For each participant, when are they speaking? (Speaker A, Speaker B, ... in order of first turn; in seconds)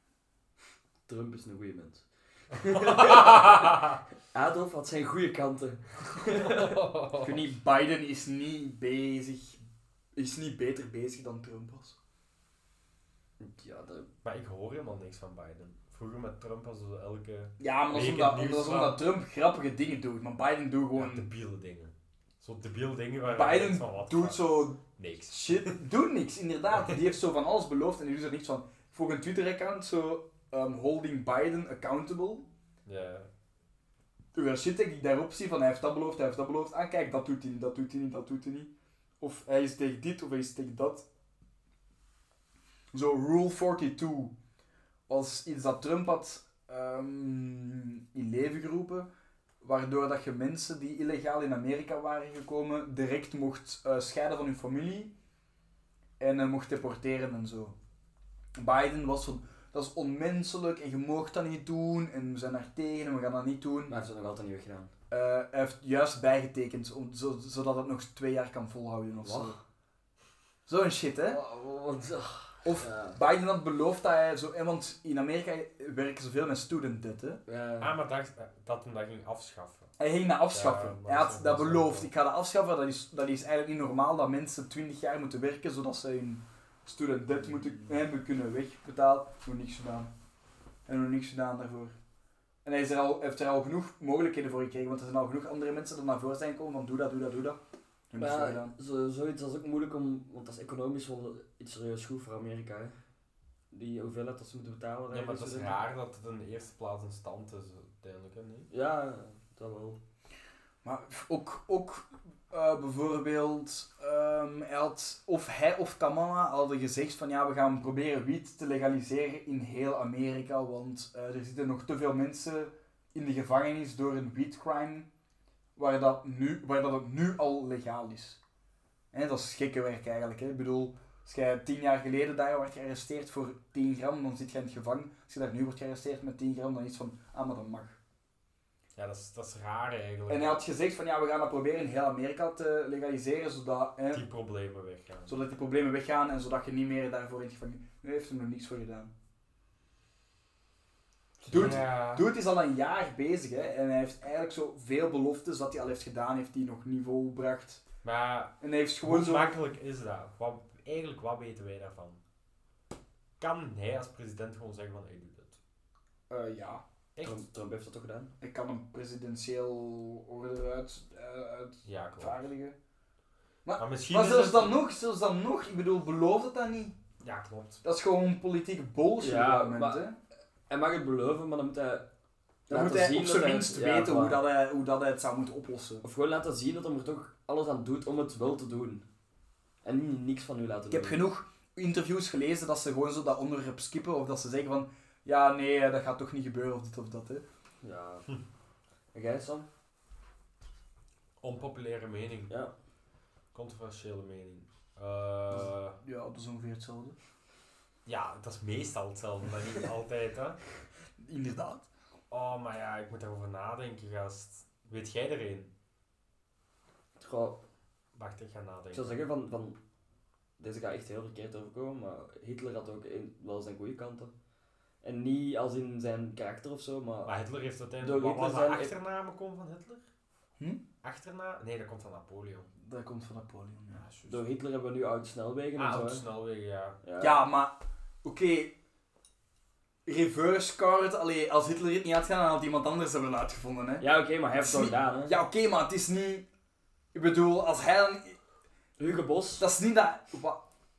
Speaker A: 1.1-6.8, 13.4-14.1, 63.9-64.9, 69.2-69.6, 71.3-73.2, 77.5-77.9, 98.2-103.0, 103.7-105.8, 108.7-110.0, 151.4-151.8, 167.2-168.3, 179.2-180.0, 180.7-182.1, 182.7-184.4, 186.0-189.0, 189.8-191.2, 197.8-198.2, 199.1-199.7, 217.2-217.6, 218.9-219.8, 220.6-224.3, 225.0-227.3, 228.0-228.9, 234.2-236.2, 237.0-237.4, 244.0-245.3, 249.0-249.7
Speaker B: 2.8-4.0, 6.3-7.4, 14.2-19.0, 20.9-24.4, 24.9-25.8, 26.7-27.1, 32.9-33.3, 77.8-79.9, 80.5-82.1, 105.1-108.7, 138.9-140.6, 144.1-145.3, 151.5-152.3, 158.0-162.2, 163.4-165.6, 167.1-167.4, 171.8-172.4, 173.8-174.8, 177.2-177.8, 201.4-202.5, 203.5-206.0, 208.1-210.6, 212.3-215.7, 218.1-219.2, 227.2-230.0, 231.0-232.7, 234.0-234.4, 235.8-237.0
Speaker C: 7.2-9.6, 10.2-12.0, 17.6-21.3, 23.2-32.5, 34.3-41.0, 42.9-44.3, 45.1-49.1, 49.6-55.1, 56.2-57.7, 58.6-63.9, 65.1-69.5, 70.7-71.4, 72.6-77.4, 80.0-90.1, 90.9-91.9, 92.6-97.6, 98.1-98.7, 110.8-125.1, 125.8-128.4, 129.1-138.0, 140.3-144.2, 145.3-149.1, 151.4-157.8, 158.6-159.6, 166.3-166.8, 168.4-172.8, 173.6-176.9, 177.8-180.2, 182.7-186.0, 190.9-197.4, 205.5-207.2, 211.2-211.9, 232.8-234.1, 237.2-238.7, 240.1-244.0, 244.6-246.4, 247.1-248.4, 249.6-250.6